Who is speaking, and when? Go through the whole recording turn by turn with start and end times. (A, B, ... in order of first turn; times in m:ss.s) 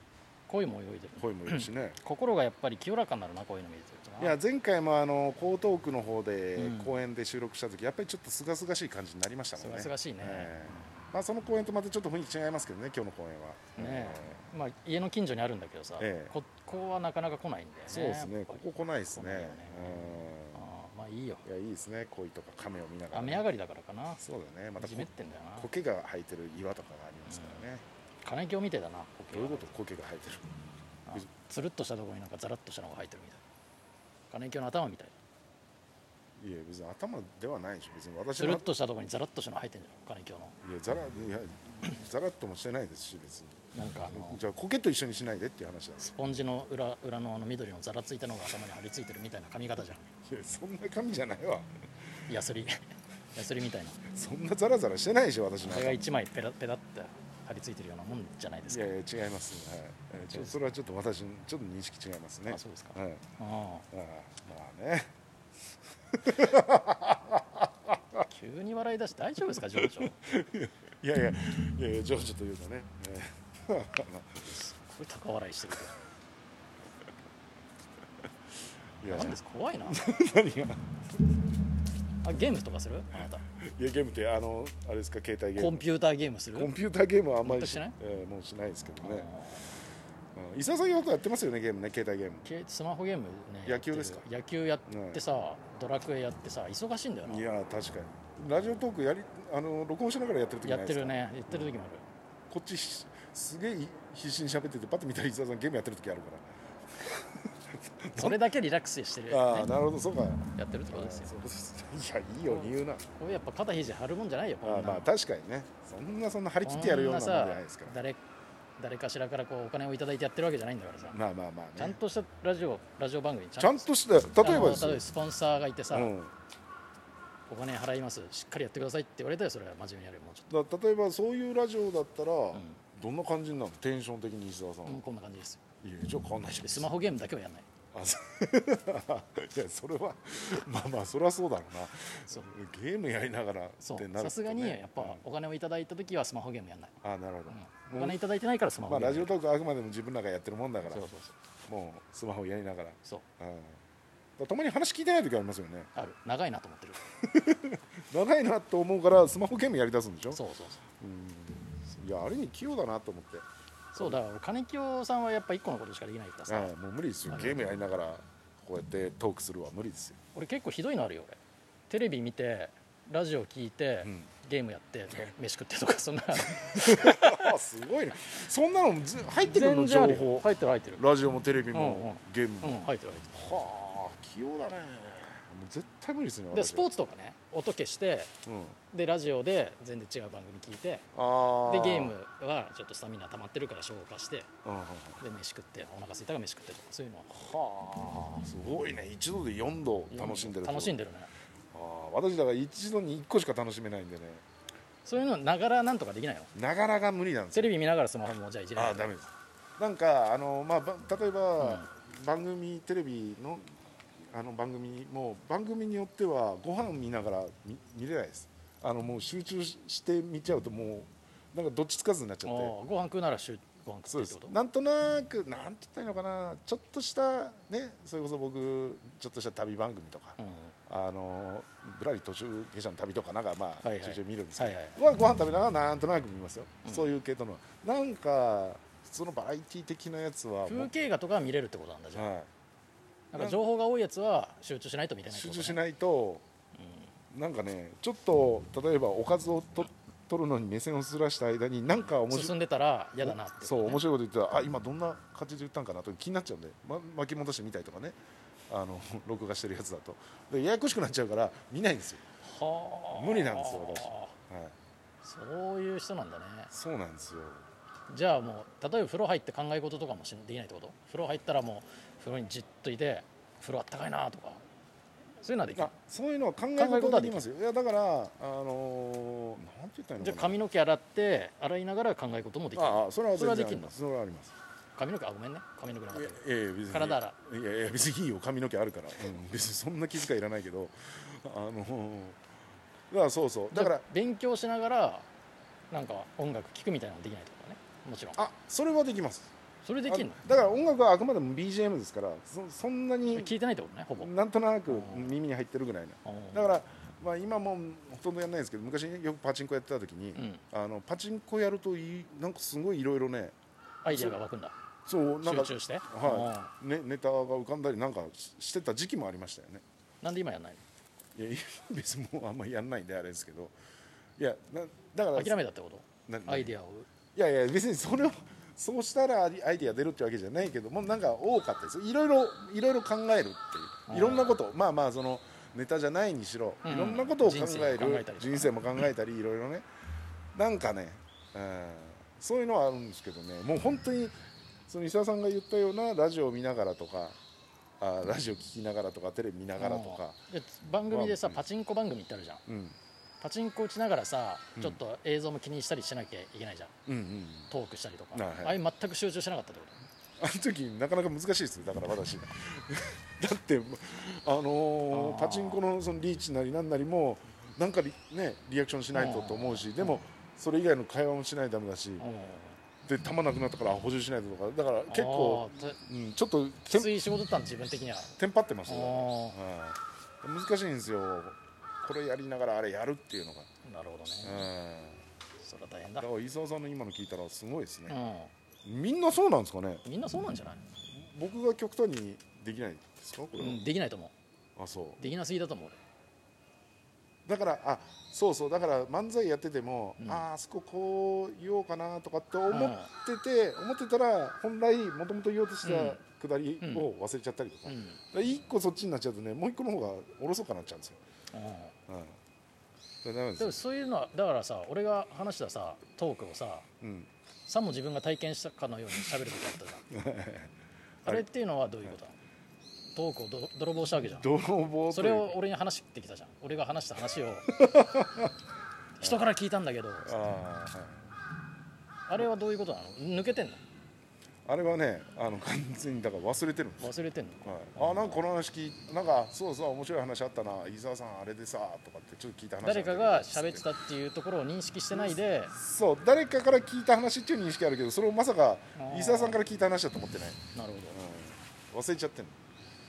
0:00.5-0:04.4 A
0:01.2-0:02.0 B
0:04.2-0:14.5 B
0:06.6-0:07.0 A
0:09.6-0:10.9 A
0:13.8-0:21.4 A
0:16.0-0:16.4 B
0:17.9-0:20.7 B
0:21.4-0:23.5 B
0:23.1-0:24.2 A
0:24.2-0:27.8 B
0:24.8-0:25.7 A
0:27.3-0:27.7 A
0:28.2-0:29.7 A
0:29.3-0:30.5 B
0:31.1-0:33.4 A
0:34.3-0:35.2 A
0:36.4-0:38.7 B
0:38.4-0:40.6 A
0:40.6-0:46.2 B
0:43.7-0:44.4 A
0:46.0-0:50.1 A
0:50.2-0:51.7 B
0:52.3-0:52.8 A
0:53.4-0:54.0 A
0:54.1-0:56.1 B
0:55.6-0:58.9 A
0:58.7-1:03.3 B
1:00.3-1:00.6 A
1:02.5-1:03.8 A
1:03.9-1:05.1 B
1:06.1-1:08.3 B
1:08.3-1:10.2 A
1:09.8-1:14.5 B
1:14.4-1:15.9 A
1:19.0-1:20.8 B
1:19.1-1:20.0 A
1:22.2-1:23.4 A
1:23.1-1:25.8 B
1:25.6-1:26.7 A
1:26.5-1:29.3 B
1:27.4-1:28.0 A
1:29.0-1:29.7 A
1:30.4-1:32.4 B
1:32.4-1:37.5 A
1:33.6-1:34.2 B
1:34.9-1:35.2 B
1:37.2-1:41.8 B
1:40.6-1:42.0 A
1:42.5-1:47.2 B
1:47.9-1:48.4 B
1:48.2-1:49.8 A
1:49.3-1:53.1 B
1:50.6-1:51.5 A
1:52.5-1:55.1 A
1:54.6-1:58.0 B
1:56.6-1:58.2 A
1:58.8-2:01.2 A
2:01.1-2:02.0 B
2:01.8-2:06.1 A
2:03.6-2:05.0 B
2:05.9-2:06.3 B
2:07.5-2:10.5 A
2:10.5-2:15.0 B
2:12.5-2:12.8 A
2:14.8-2:15.6 A
2:15.8-2:17.0 B
2:16.6-2:17.7 A
2:17.9-2:25.2 B
2:23.8-2:27.0 A
2:27.0-2:28.2 B
2:27.5-2:29.3 A
2:28.9-2:31.0 B
2:30.8-2:31.4 A
2:31.7-2:33.8 B
2:34.4-2:35.9 B
2:36.0-2:37.0 A
2:37.2-2:40.4 B
2:40.3-2:40.8 A
2:41.0-2:44.2 B
2:43.9-2:46.7 A
2:46.5-2:50.2 B
2:47.3-2:47.8 A
2:50.3-2:51.4 A
2:51.9-2:57.5 A
2:54.0-2:54.3 B
2:56.4-3:06.9 B
2:59.4-3:01.0 A
3:01.7-3:03.4 A
3:06.5-3:08.3 A
3:08.4-3:08.8 B
3:08.9-3:11.1 A
3:11.1-3:12.2 B
3:11.6-3:14.5 A
3:14.6-3:15.2 B
3:15.2-3:17.3 A
3:17.3-3:21.0 B
3:20.1-3:21.3 A
3:21.7-3:24.4 B
3:25.0-3:26.5 A
3:26.5-3:27.8 B
3:27.5-3:29.1 A
3:28.3-3:33.8 B
3:31.6-3:31.9 A
3:34.3-3:42.8 B
3:42.4-3:44.6 A
3:44.1-4:00.9 B
3:50.4-3:50.7 A
3:53.8-3:55.0 A
4:00.7-4:02.3 A
4:02.1-4:02.5 B
4:03.3-4:05.8 A
4:03.3-4:03.6 B
4:05.3-4:06.4 B
4:06.8-4:07.1 A
4:07.3-4:12.6 B
4:12.1-4:14.0 A
4:13.2-4:18.2 B
4:18.7-4:22.2 B
4:22.4-4:24.3 A
4:23.1-4:24.8 B
4:25.2-4:26.7 A
4:26.7-4:27.6 B
4:28.1-4:34.6 A
4:35.4-4:35.9 A
4:35.7-4:40.6 B
4:36.8-4:37.4 A
4:40.2-4:43.9 A
4:42.8-4:44.5 B
4:45.0-4:47.4 A
4:46.1-4:52.4 B
4:53.1-4:54.1 B
4:53.7-4:55.3 A
4:55.9-4:58.4 A
4:58.4-4:59.5 B
4:59.8-5:00.4 A
5:00.0-5:03.5 B
5:03.3-5:04.3 A
5:04.2-5:13.6 B
5:04.9-5:05.4 A
5:06.2-5:06.7 A
5:10.4-5:10.6 A
5:14.0-5:14.7 A
5:14.1-5:14.4 B
5:15.1-5:19.8 B
5:15.4-5:16.7 A
5:20.2-5:20.8 A
5:21.4-5:23.8 B
5:24.4-5:25.6 B
5:25.3-5:27.1 A
5:26.3-5:26.7 B
5:27.4-5:39.9 B
5:34.1-5:34.6 A
5:36.8-5:38.8 A
5:40.5-5:44.4 B
5:44.9-5:47.4 B
5:48.0-5:50.4 B
5:49.8-5:52.6 A
5:51.1-5:51.6 B
5:52.7-5:53.0 B
5:53.4-5:56.9 A
5:57.1-5:57.7 B
5:57.7-6:00.0 A
5:58.3-5:58.8 B
6:00.4-6:12.3 B
6:05.1-6:05.8 A
6:09.1-6:10.2 A
6:12.2-6:12.8 A
6:13.0-6:17.1 B
6:15.1-6:16.0 A
6:16.9-6:18.4 A
6:18.4-6:23.7 B
6:18.9-6:19.6 A
6:23.8-6:24.7 A
6:24.4-6:25.2 B
6:25.6-6:26.3 A
6:26.2-6:28.2 B
6:28.1-6:28.5 A
6:28.8-6:30.0 B
6:30.0-6:30.8 A
6:31.1-6:33.8 B
6:33.6-6:34.3 A
6:34.8-6:35.2 B
6:35.2-6:36.0 A
6:37.5-6:51.2 B
6:40.2-6:40.5 A
6:42.7-6:43.1 A
6:45.8-6:46.2 A
6:46.8-6:47.1 A
6:47.9-6:48.2 A
6:51.5-6:52.0 A
6:52.1-6:52.4 B
6:53.2-6:53.8 B
6:53.6-6:56.8 A
6:57.0-6:57.3 B
6:57.7-7:00.1 A
7:00.1-7:00.7 B
7:01.2-7:02.4 A
7:03.1-7:04.5 A
7:04.2-7:05.6 B
7:05.1-7:07.7 A
7:07.8-7:08.5 B
7:09.2-7:10.4 A
7:10.2-7:11.3 B
7:12.3-7:13.8 A
7:14.7-7:17.1 B
7:17.0-7:18.4 A
7:17.6-7:23.9 B
7:22.8-7:25.7 A
7:25.1-7:30.6 B
7:29.0-7:29.6 A
7:30.8-7:31.2 A
7:31.1-7:32.6 B